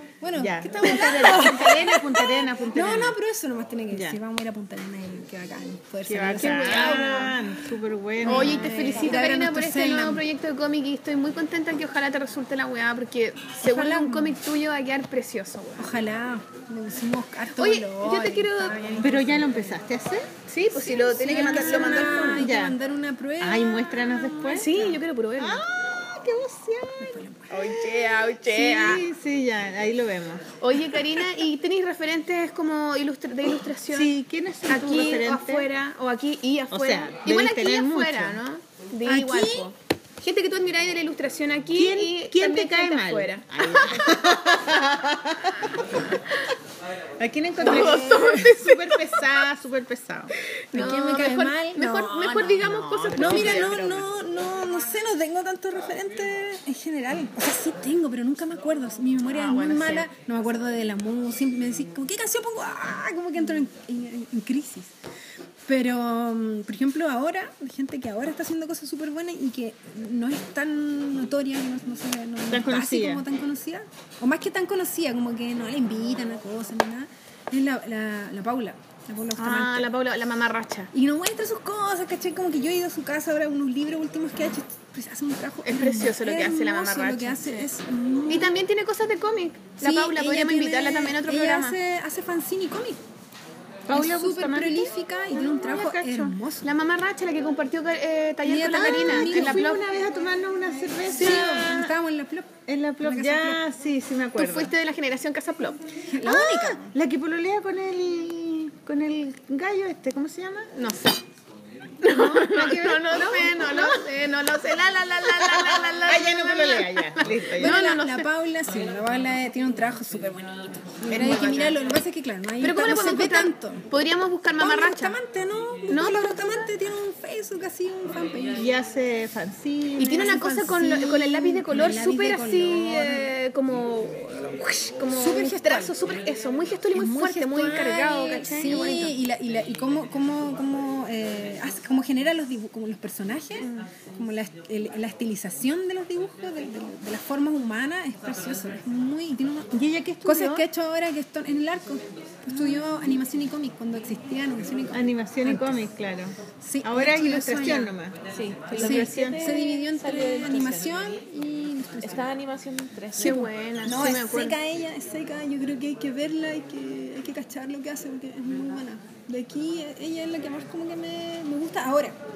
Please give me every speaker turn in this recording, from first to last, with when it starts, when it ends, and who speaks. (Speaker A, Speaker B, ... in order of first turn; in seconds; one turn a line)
Speaker A: 0.2-7.4
Speaker B: 0.3-3.2
Speaker C: 1.1-1.6
Speaker B: 3.9-4.2
Speaker B: 6.0-8.8
Speaker C: 6.4-7.3
Speaker A: 8.2-10.2
Speaker C: 8.2-15.9
Speaker A: 13.6-14.4
Speaker A: 15.8-19.8
Speaker C: 17.6-18.8
Speaker B: 19.0-20.3
Speaker C: 20.5-22.5
Speaker A: 20.7-24.9
Speaker B: 21.4-22.8
Speaker B: 23.4-30.6
Speaker C: 24.5-25.6
Speaker A: 27.0-27.5
Speaker C: 27.5-29.0
Speaker C: 30.6-34.1
Speaker B: 33.9-35.7
Speaker C: 34.7-44.2
Speaker B: 36.7-38.4
Speaker A: 39.0-39.7
Speaker B: 41.7-46.0
Speaker B: 47.2-50.3
Speaker A: 47.6-48.5
Speaker C: 47.6-49.3
Speaker C: 50.7-53.9
Speaker A: 50.7-64.9
Speaker B: 52.6-54.0
Speaker C: 59.2-60.1
Speaker A: 65.7-79.9
Speaker B: 72.5-73.2
Speaker C: 79.3-80.9
Speaker A: 80.9-88.6
Speaker C: 85.6-87.7
Speaker C: 88.3-91.8
Speaker A: 89.8-93.0
Speaker B: 93.9-96.4
Speaker A: 93.9-96.7
Speaker C: 96.6-99.8
Speaker A: 98.4-99.6
Speaker B: 98.7-101.9
Speaker A: 101.1-103.6
Speaker C: 101.2-101.7
Speaker B: 102.7-104.7
Speaker C: 104.3-105.8
Speaker A: 106.1-106.9
Speaker B: 106.3-110.7
Speaker C: 106.4-106.7
Speaker C: 110.8-111.2
Speaker C: 112.0-118.3
Speaker B: 112.0-114.0
Speaker B: 115.3-117.8
Speaker A: 117.6-123.8
Speaker C: 121.1-121.8
Speaker C: 122.6-125.2
Speaker A: 124.6-128.7
Speaker C: 125.9-126.3
Speaker B: 128.5-130.5
Speaker C: 130.0-139.1
Speaker A: 130.0-133.3
Speaker A: 135.1-136.0
Speaker A: 136.9-155.8
Speaker C: 143.6-143.9
Speaker B: 149.7-150.7
Speaker B: 154.9-158.2
Speaker A: 156.6-157.9
Speaker D: 158.3-160.8
Speaker A: 158.6-162.3
Speaker B: 158.7-159.4
Speaker C: 158.7-159.3
Speaker D: 162.0-163.4
Speaker C: 163.2-164.6
Speaker A: 163.2-172.2